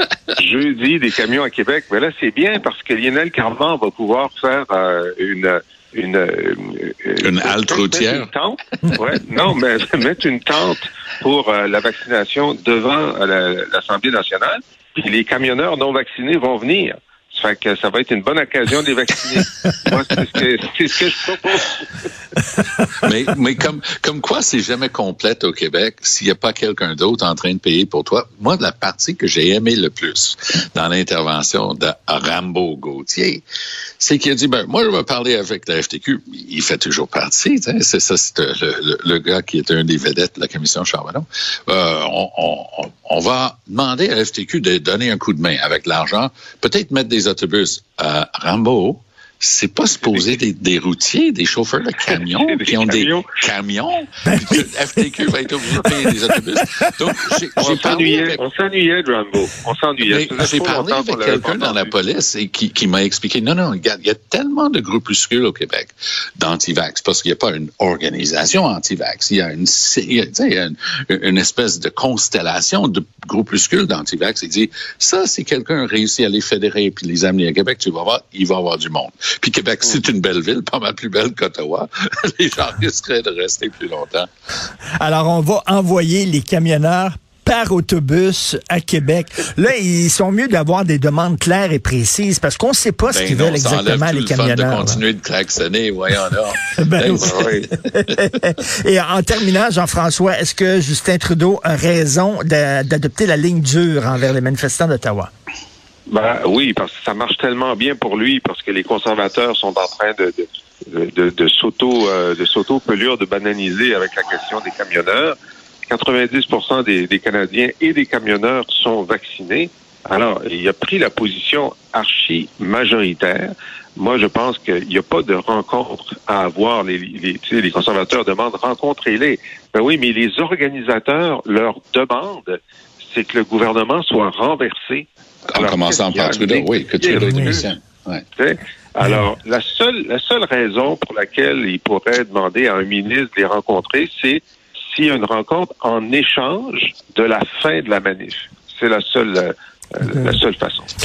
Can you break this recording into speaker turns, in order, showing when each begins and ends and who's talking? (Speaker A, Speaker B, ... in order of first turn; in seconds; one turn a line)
Speaker A: 0.4-21.9
Speaker B: 7.2-8.3
Speaker B: 23.0-33.4
Speaker B: 34.0-58.4
Speaker A: 50.0-50.4
Speaker A: 52.1-53.4
Speaker C: 54.2-55.2
Speaker C: 56.0-56.4
Speaker A: 57.6-61.9
Speaker B: 60.0-84.3
Speaker C: 85.0-95.0
Speaker B: 93.1-98.1
Speaker C: 96.7-105.3
Speaker A: 97.2-97.7
Speaker A: 106.1-115.4
Speaker A: 115.9-132.6
Speaker A: 133.1-137.7
Speaker B: 135.5-138.2
Speaker C: 137.1-137.6
Speaker A: 138.3-150.9
Speaker C: 150.1-150.4